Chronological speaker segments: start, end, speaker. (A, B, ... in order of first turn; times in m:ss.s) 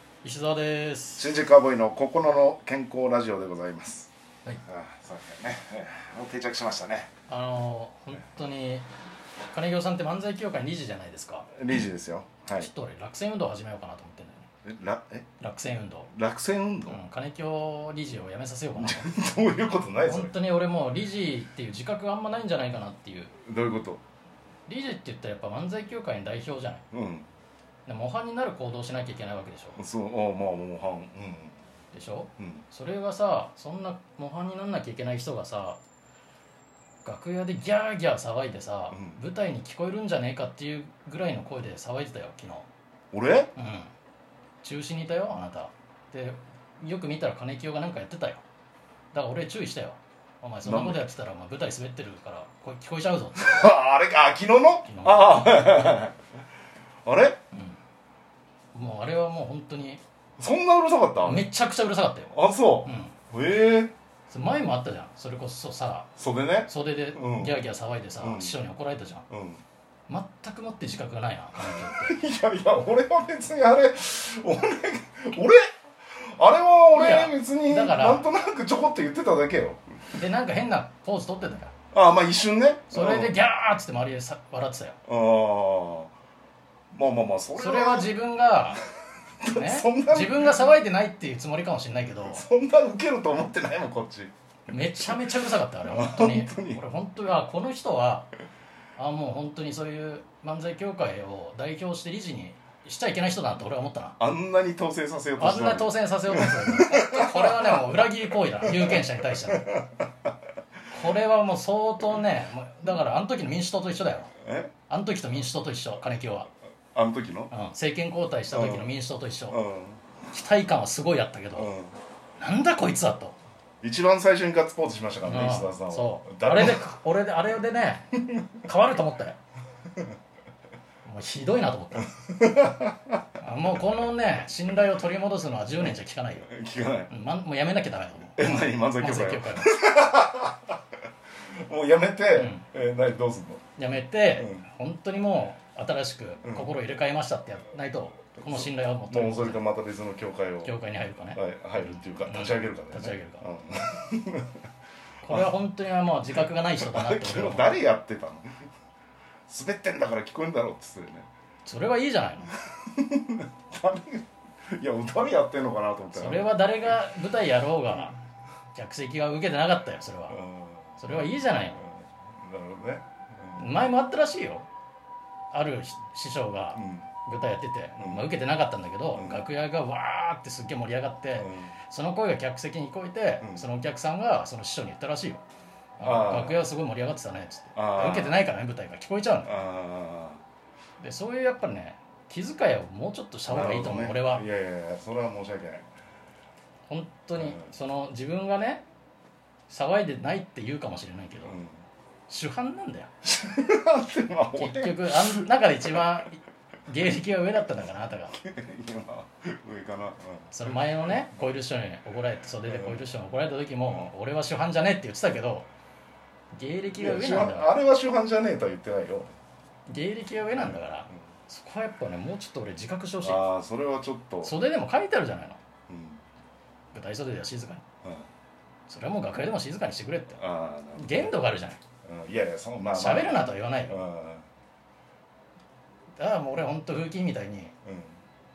0:00.2-0:01.4 A
0:01.2-0:07.1 B
0:07.3-0:08.9 A
0:09.5-0:11.5 A
0:11.5-0:12.7 B
0:12.5-0:14.5 A
0:14.6-0:15.3 B
0:15.4-0:16.1 A
0:16.0-0:17.0 B
0:16.9-0:19.1 A
0:18.8-0:20.4 B
0:20.0-0:23.4 A
0:23.3-0:24.0 B
0:24.7-0:26.8 A
0:26.9-0:27.3 B
0:27.9-0:29.8 A
0:29.8-0:31.6 B
0:31.9-0:35.8 A
0:32.4-0:32.7 B
0:37.0-0:42.7 A
0:38.9-0:39.2 B
0:43.1-0:43.5 B
0:43.6-0:43.9 A
0:44.6-0:48.4 A
0:49.1-0:53.4 A
0:50.6-0:51.1 B
0:53.3-0:56.2 B
0:54.8-0:55.4 A
0:57.0-0:57.4 B
0:57.5-0:57.8 A
0:58.7-1:00.0 A
1:00.4-1:01.5 B
1:01.2-1:03.2 A
1:02.3-1:03.9 B
1:04.3-1:06.1 A
1:06.1-1:07.6 B
1:06.7-1:09.2 A
1:08.2-1:08.6 B
1:09.3-1:09.6 B
1:10.1-1:12.2 A
1:11.5-1:19.8 B
1:16.9-1:18.3 A
1:20.1-1:21.7 A
1:21.9-1:23.4 B
1:22.9-1:25.0 A
1:25.0-1:26.1 B
1:26.9-1:28.1 B
1:27.6-1:28.8 A
1:29.4-1:30.8 B
1:29.5-1:32.4 A
1:32.2-1:34.3 B
1:34.7-1:38.3 A
1:34.8-1:36.8 B
1:39.0-1:44.2 A
1:44.2-1:50.3 B
1:45.4-1:49.6 A
1:50.9-1:54.3 A
1:54.4-1:54.8 B
1:54.9-1:56.5 A
1:56.9-1:57.6 B
1:57.5-1:59.6 A
1:58.5-2:00.1 B
2:00.3-2:01.7 A
2:01.6-2:02.0 B
2:02.4-2:03.4 A
2:03.8-2:06.9 B
2:05.2-2:08.1 A
2:08.1-2:08.7 B
2:08.6-2:09.4 A
2:11.0-2:12.1 A
2:12.0-2:14.0 B
2:13.4-2:16.4 A
2:16.4-2:17.1 B
2:17.1-2:19.7 A
2:18.3-2:20.8 B
2:21.6-2:23.7 B
2:22.4-2:22.7 A
2:23.8-2:29.7 A
2:24.4-2:24.7 B
2:26.4-2:26.8 B
2:28.2-2:30.8 B
2:30.6-2:31.4 A
2:31.3-2:34.6 B
2:32.2-2:33.5 A
2:35.2-2:37.8 A
2:35.2-2:35.5 B
2:36.3-2:38.6 B
2:39.5-2:41.3 B
2:41.6-2:42.5 A
2:42.5-2:47.0 B
2:46.1-2:48.1 A
2:48.7-2:50.4 A
2:50.3-2:53.7 B
2:51.0-2:51.8 A
2:53.6-2:54.7 A
2:55.5-3:05.4 A
2:56.8-2:57.2 B
2:58.0-2:58.3 B
2:59.1-2:59.5 B
3:01.4-3:01.8 B
3:03.4-3:03.7 B
3:06.0-3:09.5 A
3:06.0-3:06.6 B
3:07.7-3:08.4 B
3:09.4-3:10.4 B
3:11.0-3:14.4 A
3:13.5-3:15.8 B
3:16.9-3:18.8 A
3:17.4-3:17.7 B
3:19.7-3:21.6 A
3:21.4-3:21.8 B
3:22.3-3:23.1 A
3:23.2-3:26.0 B
3:24.5-3:28.4 A
3:28.3-3:31.2 B
3:30.5-3:35.7 A
3:32.6-3:33.1 B
3:36.5-3:37.7 A
3:36.9-3:39.3 B
3:39.9-3:43.5 A
3:40.5-3:41.2 B
3:43.2-3:44.5 B
3:44.4-3:45.6 A
3:45.9-3:46.2 B
3:46.9-3:47.8 A
3:48.0-3:48.3 B
3:48.9-3:50.4 A
3:50.4-3:51.5 B
3:50.9-3:51.8 A
3:52.0-3:54.4 B
3:52.9-3:54.0 A
3:56.2-3:57.7 A
3:57.8-3:58.2 B